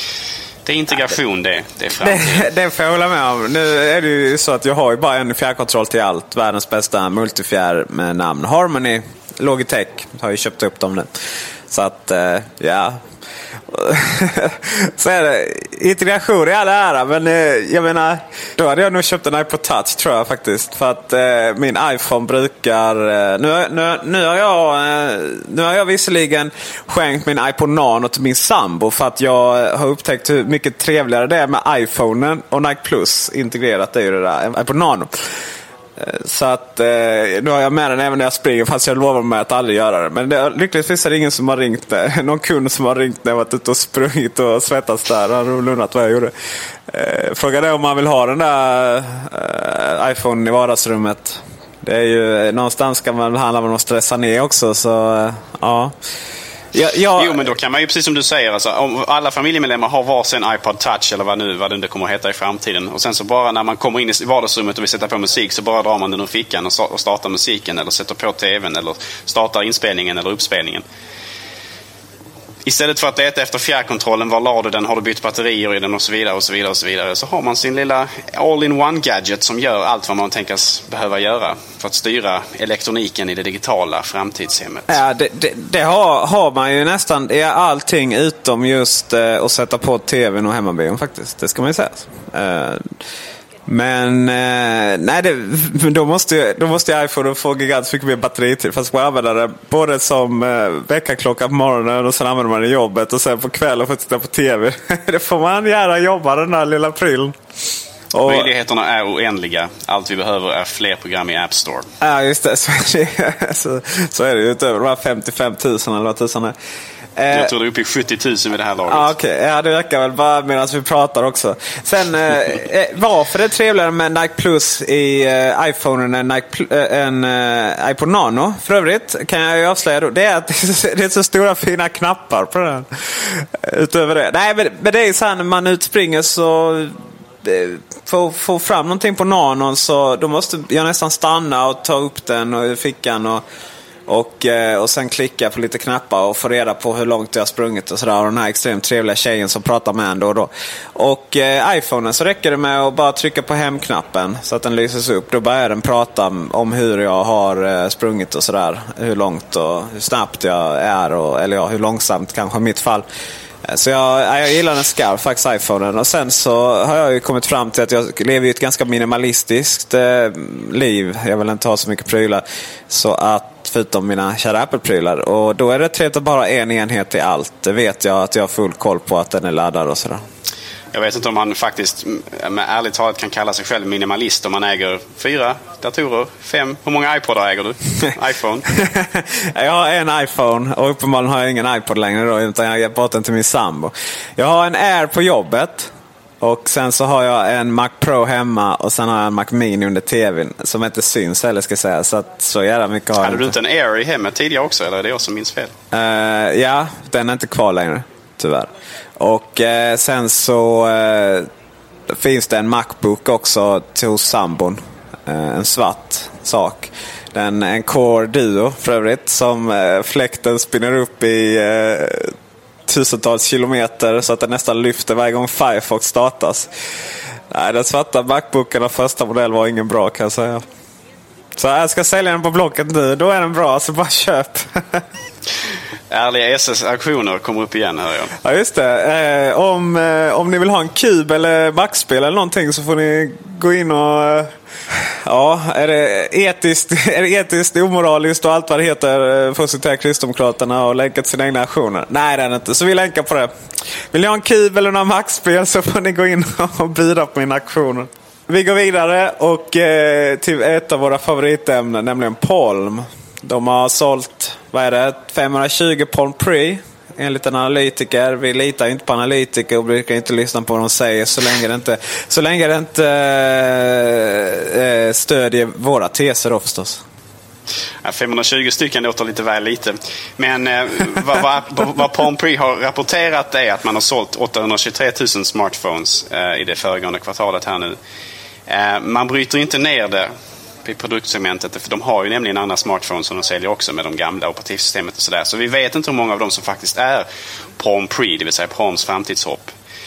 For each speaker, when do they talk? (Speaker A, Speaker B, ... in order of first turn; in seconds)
Speaker A: 0.7-2.5, 57.1-70.8, 72.7-85.0, 108.2-111.9, 117.3-119.1, 180.9-188.7, 203.2-205.7, 236.1-238.3, 278.0-288.0, 288.7-290.3, 290.8-299.8
Speaker B: 2.0-11.1, 11.7-13.0, 13.7-35.1, 36.0-46.3, 46.9-56.0, 56.7-57.5, 84.9-92.9, 93.7-107.3, 108.1-108.5, 112.0-116.5, 117.2-117.5, 118.9-143.4, 144.1-163.1, 163.7-180.2, 188.8-203.6, 205.9-211.5, 212.1-222.3, 222.9-226.7, 227.5-230.7, 231.6-235.0, 238.4-244.5, 245.2-253.5, 254.1-277.0